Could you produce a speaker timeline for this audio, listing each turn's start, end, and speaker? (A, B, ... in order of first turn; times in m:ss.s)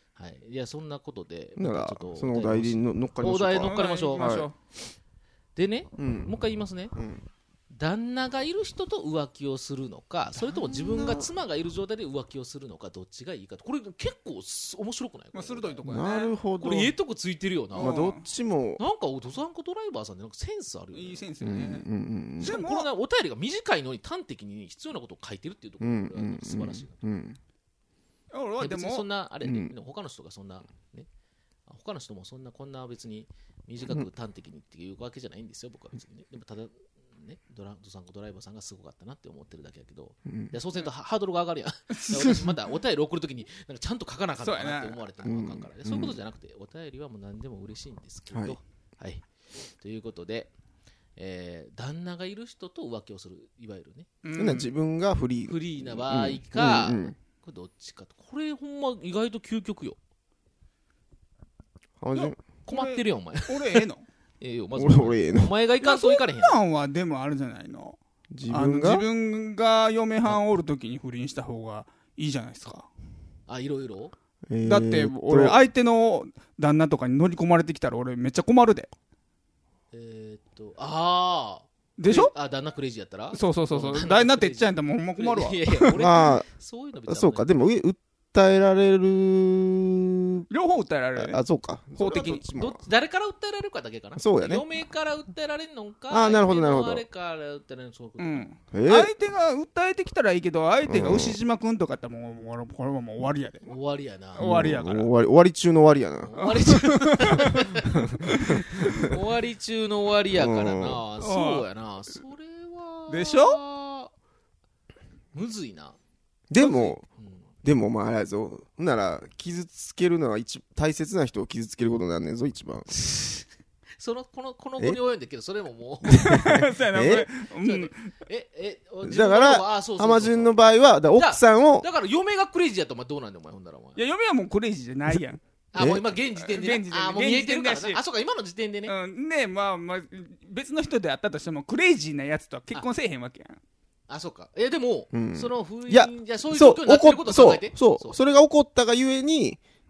0:00.2-0:04.5 A
0:01.6-0:04.5 B
0:03.6-0:04.6 C
0:05.6-0:07.0 A
0:06.0-0:06.4 B
0:06.9-0:07.2 B
0:07.7-0:15.8 A
0:10.4-0:11.3 B
0:15.3-0:16.3 C
0:15.8-0:17.0 B
0:16.6-0:18.0 A
0:17.8-0:18.2 C
0:17.8-0:18.8 B
0:18.8-0:21.2 A
0:20.9-0:21.9 C
0:21.4-0:22.6 B
0:22.4-0:22.9 C
0:22.4-0:27.0 A
0:25.8-0:27.4 B
0:28.3-0:29.1 C
0:28.6-0:31.1 A
0:29.4-0:29.7 B
0:31.7-0:49.2 A
0:40.3-0:40.6 B
0:42.0-0:42.5 C
0:44.4-0:45.0 C
0:45.2-0:46.2 B
0:48.3-0:48.6 B
0:49.8-0:50.5 A
0:51.2-0:54.1 A
0:54.2-0:54.7 C
0:54.4-0:57.2 B
0:55.5-1:00.0 A
1:02.0-1:02.4 B
1:02.2-1:04.0 C
1:02.6-1:03.9 A
1:04.4-1:06.6 A
1:04.8-1:05.5 B
1:05.8-1:08.0 C
1:08.3-1:09.0 B
1:08.5-1:12.9 C
1:13.5-1:14.1 A
1:14.5-1:15.6 B
1:14.7-1:18.9 C
1:19.9-1:27.5 A
1:22.0-1:22.3 C
1:23.3-1:26.0 C
1:25.9-1:26.5 B
1:27.1-1:30.5 B
1:30.5-1:31.4 C
1:31.2-1:32.8 B
1:32.0-1:32.4 C
1:32.5-1:38.5 A
1:34.2-1:34.6 B
1:36.1-1:37.0 B
1:38.2-1:43.7 C
1:38.7-1:39.1 B
1:40.9-1:41.4 B
1:43.6-1:44.5 A
1:44.4-1:45.1 C
1:44.4-1:46.6 B
1:46.2-1:48.1 A
1:46.4-1:47.7 C
1:47.9-1:49.2 B
1:48.3-1:48.6 C
1:48.7-1:54.1 A
1:50.3-1:51.0 B
1:51.2-1:51.7 C
1:53.1-1:53.6 C
1:55.3-1:56.0 A
1:56.5-1:57.0 B
1:56.6-1:57.5 A
1:57.6-2:02.9 B
2:02.9-2:03.4 A
2:04.0-2:06.5 A
2:06.2-2:08.1 C
2:06.3-2:07.3 B
2:07.6-2:10.5 A
2:09.0-2:11.9 B
2:11.2-2:14.0 A
2:14.0-2:15.4 C
2:15.7-2:18.9 A
2:15.8-2:16.0 B
2:16.4-2:18.0 C
2:18.9-2:23.6 C
2:24.1-2:28.2 A
2:25.1-2:29.6 B